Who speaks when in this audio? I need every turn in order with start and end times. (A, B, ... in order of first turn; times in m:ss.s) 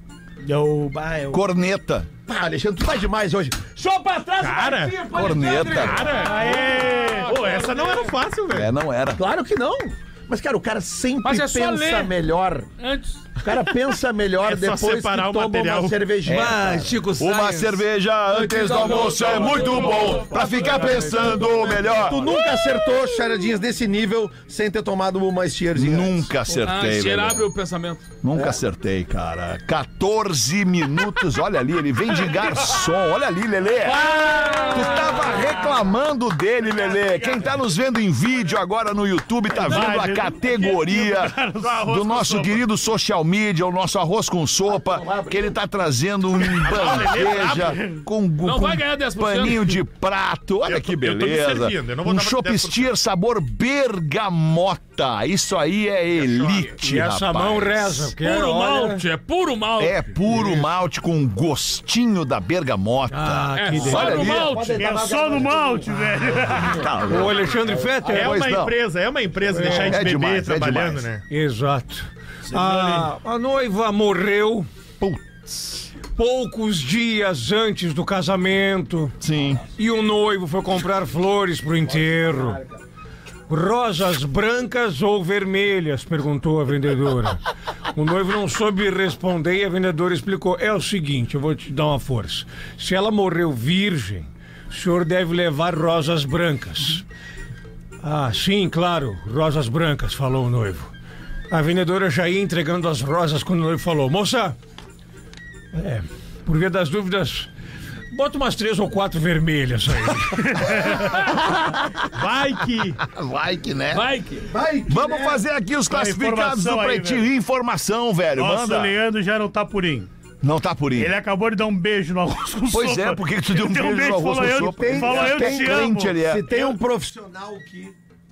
0:00.4-0:01.4 A
0:01.3-0:02.1 B
0:02.2-0:06.1 C
0:04.4-0:05.0 D
0:05.1-0:06.1 B
0:05.7-0:08.7 D
0:06.1-0:08.1 E
0:06.1-0:07.5 A
0:08.5-0:09.2 B
0:09.2-0:12.7 C
0:11.2-0:12.1 E
0:12.8-0:13.3 E
0:13.4-0:17.0 C
0:14.4-0:16.0 D
0:16.2-0:22.3 B
0:16.3-0:17.8 F
0:18.3-0:21.0 E
0:19.6-0:21.9 F
0:20.4-0:26.3 C
0:25.7-0:27.4 B
0:26.6-0:28.0 E
0:28.2-0:34.1 B
0:33.8-0:35.4 E
0:34.7-0:58.1 B
0:37.0-0:37.4 A
0:39.5-0:41.9 A
0:41.6-0:42.6 D
0:46.6-0:47.8 D
0:46.8-0:48.0 A
0:48.4-0:49.8 E
0:50.6-0:52.9 D
0:56.8-0:59.0 F
0:58.2-1:00.4 E
0:59.8-1:04.6 B
1:03.1-1:04.2 F
1:03.6-1:04.8 E
1:03.8-1:05.9 C
1:04.7-1:06.9 A
1:06.6-1:07.5 B
1:07.1-1:08.4 F
1:08.1-1:11.2 D
1:08.1-1:08.7 B
1:09.5-1:10.0 F
1:09.7-1:11.0 B
1:11.3-1:14.7 F
1:12.5-1:13.1 D
1:15.0-1:15.8 B
1:16.2-1:19.1 F
1:19.2-1:19.6 B
1:19.8-1:22.6 F
1:21.9-1:22.8 C
1:23.5-1:27.4 F
1:27.9-1:37.0 F
1:38.0-1:40.9 F
1:41.5-1:44.6 F
1:45.7-1:47.5 F
1:48.1-1:51.0 F
1:50.4-1:51.2 A
1:52.1-1:53.0 D
1:53.0-1:54.1 B
1:53.9-1:54.5 E
1:54.5-1:55.4 C
1:54.9-1:58.9 B
1:55.9-1:57.3 A
1:58.3-2:00.1 A
2:00.4-2:01.1 B
2:01.0-2:06.8 A
2:02.7-2:06.4 B
2:04.7-2:08.0 C